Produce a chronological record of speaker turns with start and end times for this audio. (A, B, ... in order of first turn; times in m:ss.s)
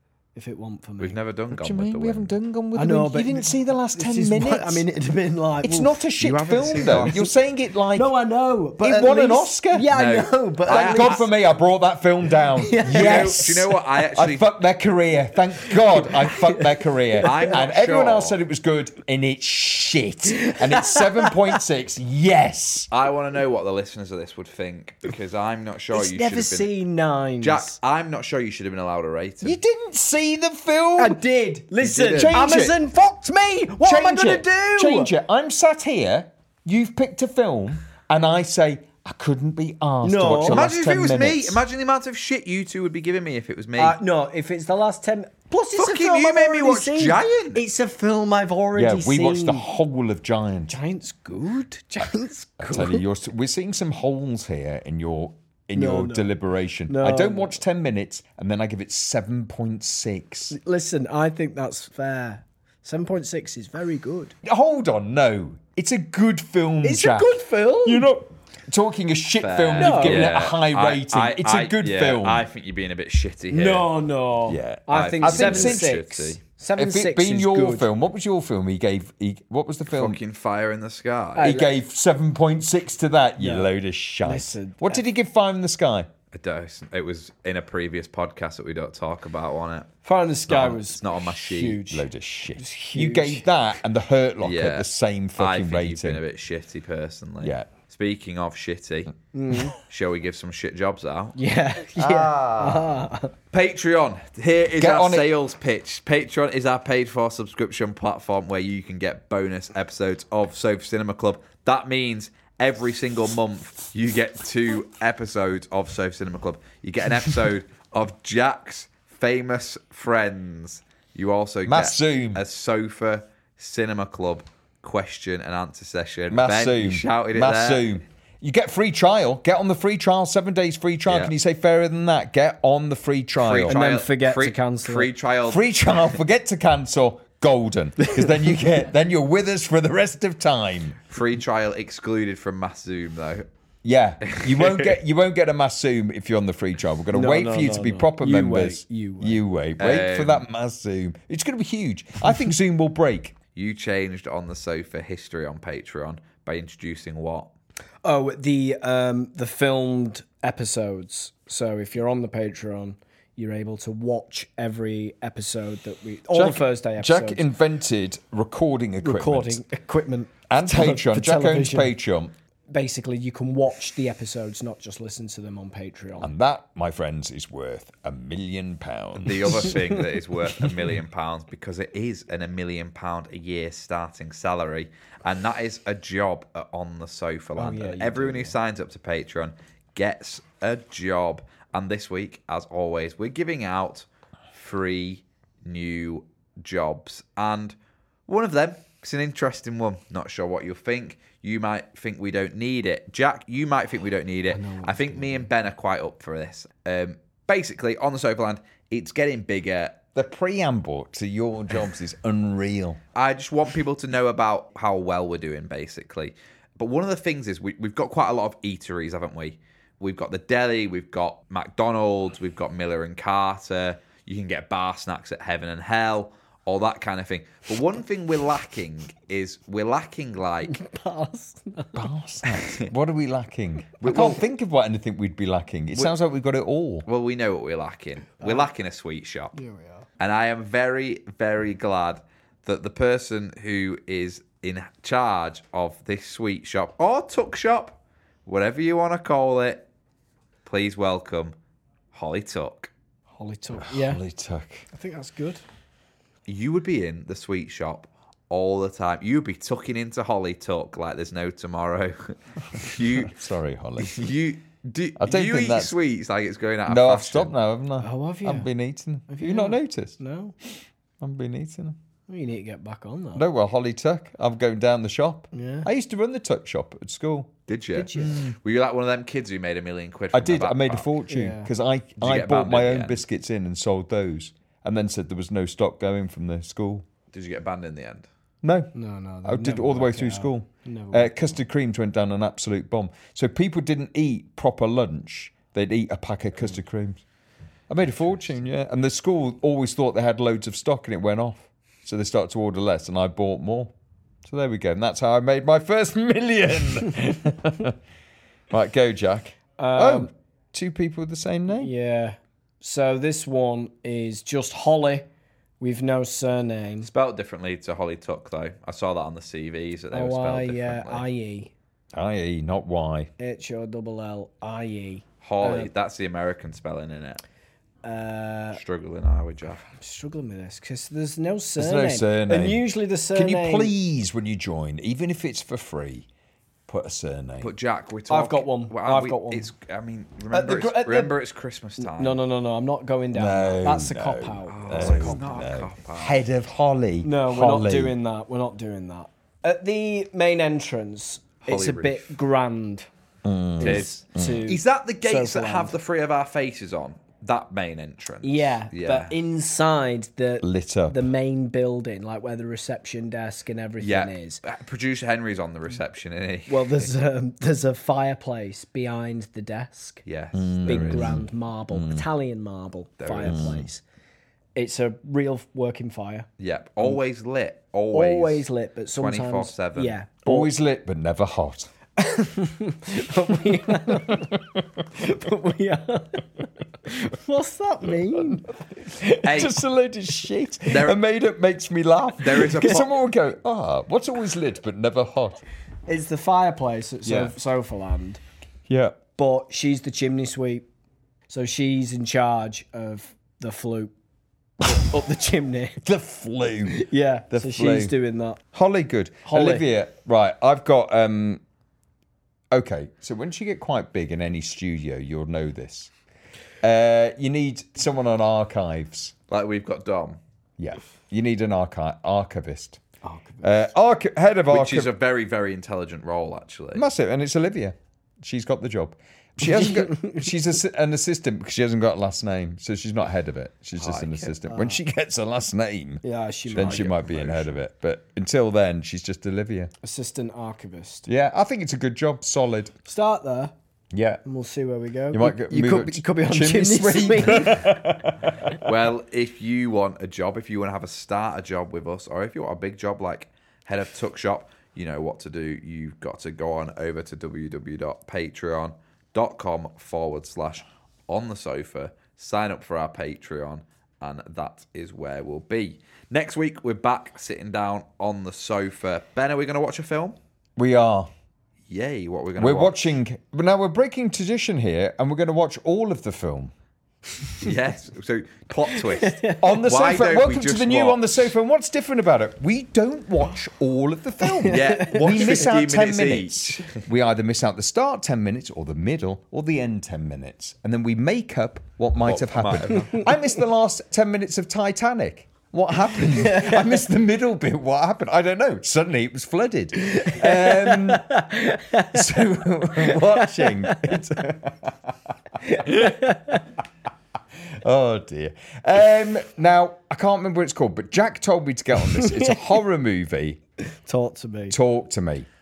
0:00.4-0:01.2 A
0:01.0-0:02.4 B
0:01.5-0:04.9 C
0:02.8-0:06.1 A
0:05.6-0:08.2 C
0:06.2-0:07.2 B
0:06.7-0:07.3 A
0:08.0-0:11.3 A
0:08.8-0:09.9 C
0:09.9-0:11.3 B
0:10.7-0:22.9 C
0:12.6-0:13.8 A
0:12.9-0:14.6 B
0:15.6-0:16.6 A
0:17.2-0:17.4 A
0:17.2-0:18.4 B
0:20.3-0:21.3 A
0:22.9-0:26.7 B
0:25.9-0:27.8 A
0:27.4-0:29.6 B
0:29.4-0:31.2 C
0:31.0-0:35.1 A
0:31.8-0:32.4 B
0:32.1-0:32.8 C
0:33.8-0:41.6 C
0:40.0-0:40.6 A
0:40.5-0:44.0 B
0:43.8-0:49.7 A
0:45.8-0:47.6 B
0:48.8-0:50.8 C
0:50.7-0:53.0 A
0:52.6-1:00.6 C
0:55.8-0:56.3 A
0:56.9-0:57.5 A
1:00.5-1:04.4 A
1:04.4-1:12.5 C
1:06.8-1:08.1 A
1:09.4-1:13.9 B
1:09.8-1:10.3 A
1:13.5-1:17.9 A
1:14.5-1:15.9 C
1:14.9-1:16.4 B
1:16.8-1:20.2 C
1:19.9-1:21.5 B
1:21.4-1:21.7 A
1:21.4-1:26.1 C
1:23.4-1:23.7 A
1:24.2-1:25.0 A
1:26.3-1:29.9 B
1:30.0-1:33.5 A
1:30.5-1:31.8 B
1:31.9-1:36.2 C
1:34.4-1:39.1 B
1:37.4-1:37.7 C
1:39.3-1:39.8 A
1:39.8-1:41.4 B
1:41.4-1:43.3 A
1:42.0-1:42.8 B
1:42.2-1:42.4 C
1:43.5-2:07.9 B
1:44.8-1:45.3 C
2:01.6-2:02.4 C
2:06.3-2:13.8 C
2:11.1-2:11.3 B
2:13.4-2:16.2 B
2:13.7-2:15.1 A
2:15.5-2:21.0 C
2:18.0-2:18.6 A
2:21.1-2:23.5 B
2:23.8-2:33.4 C
2:24.2-2:25.0 B
2:27.1-2:29.4 A
2:29.8-2:30.5 B
2:33.6-2:37.5 B
2:38.0-2:47.4 A
2:46.3-2:49.6 C
2:49.0-2:51.9 A
2:50.5-2:52.3 C
2:52.7-2:56.3 A
2:56.2-2:59.8 C
2:59.2-3:17.8 B
3:07.6-3:08.6 A
3:18.3-3:30.0 B
3:24.5-3:25.5 A
3:30.2-3:33.0 C
3:33.2-3:50.8 B
3:50.7-3:52.0 A
3:52.0-3:57.0 C
3:52.5-3:52.9 B
3:54.0-3:54.4 B
3:57.0-3:59.5 B
3:58.4-3:58.7 A
3:59.5-4:00.0 A
4:00.2-4:09.8 B
4:10.6-4:11.6 B
4:12.1-4:12.9 B
4:13.4-4:14.2 A
4:13.8-4:14.9 C
4:14.9-4:15.6 A
4:16.5-4:23.4 B
4:23.2-4:24.2 C
4:24.0-4:27.5 B
4:25.2-4:25.9 C
4:26.9-4:30.2 C
4:28.0-4:28.7 A
4:29.3-4:30.5 A
4:31.2-4:32.0 C
4:32.3-4:33.4 A
4:33.4-4:37.5 C
4:35.5-4:35.9 A
4:37.7-4:41.1 B
4:38.0-4:38.5 A
4:40.3-4:47.1 C
4:41.3-4:41.7 A
4:42.2-4:43.2 B
4:47.3-4:48.3 B
4:48.6-4:57.2 C
4:48.9-4:51.6 A
4:57.9-5:03.9 C
5:04.4-5:08.0 C
5:08.7-5:11.9 C
5:09.8-5:10.3 A
5:11.7-5:15.3 A
5:15.8-5:17.1 A
5:17.0-5:21.2 B
5:20.1-5:21.7 A
5:22.1-5:23.3 C
5:23.4-5:25.9 A
5:25.4-5:27.4 B
5:28.0-5:28.8 A
5:28.7-5:29.8 B
5:29.8-5:34.0 A
5:31.8-5:36.3 C
5:36.9-5:37.7 C
5:37.6-5:42.4 B
5:38.3-5:39.7 A
5:40.5-5:41.4 A
5:42.0-5:45.5 A
5:43.3-5:48.2 C
5:44.7-5:46.4 B
5:47.2-5:53.1 A
5:51.6-5:52.4 B
5:53.4-5:54.6 C
5:53.8-5:56.0 A
5:53.8-5:59.3 B
5:58.4-6:04.6 A
6:00.6-6:01.2 C
6:04.0-6:07.1 B
6:06.7-6:10.2 A
6:10.3-6:11.4 B
6:10.5-6:12.2 C
6:10.9-6:14.0 A
6:13.2-6:13.8 B
6:13.5-6:13.9 C
6:14.8-6:16.5 A
6:16.6-6:20.2 B
6:18.1-6:20.7 A
6:20.4-6:21.9 C
6:22.2-6:24.5 A
6:24.1-6:24.5 C
6:25.1-6:29.4 A
6:28.3-6:28.6 C
6:29.2-6:35.6 C
6:29.4-6:29.8 B
6:30.9-6:31.2 B
6:32.4-6:33.1 B
6:36.1-6:38.4 A
6:37.2-6:37.6 C
6:38.9-6:39.2 C
6:39.4-6:40.8 A
6:41.5-6:44.1 A
6:44.8-6:46.0 A
6:46.0-6:48.1 C
6:46.9-6:48.6 A
6:48.7-6:51.6 C
6:49.5-6:49.9 A
6:52.7-6:56.1 C
6:56.8-6:59.3 C
6:59.5-7:00.4 B
7:00.8-7:03.0 C
7:03.2-7:03.9 A
7:03.6-7:05.1 C
7:04.7-7:07.0 B
7:06.9-7:19.9 C
7:09.6-7:10.5 A
7:14.0-7:14.6 B
7:14.7-7:15.0 A
7:16.2-7:17.7 A
7:16.7-7:17.6 B
7:20.0-7:21.3 A
7:21.3-7:22.9 C
7:23.1-7:23.7 A
7:24.1-7:24.4 C
7:24.4-7:28.2 A
7:25.3-7:28.9 C
7:28.7-7:50.4 B
7:50.8-7:51.3 C
7:51.9-7:53.2 B
7:52.6-7:56.7 C
7:57.6-8:01.4 B
7:59.6-8:24.9 C
8:04.5-8:05.4 A
8:04.6-8:07.0 B
8:12.2-8:13.3 B
8:16.4-8:17.0 A
8:20.1-8:22.2 A
8:22.9-8:24.2 A
8:25.6-8:26.6 A
8:25.7-8:26.2 C
8:27.7-8:33.6 C
8:32.2-8:32.6 A
8:33.8-8:34.8 A
8:34.7-8:35.5 C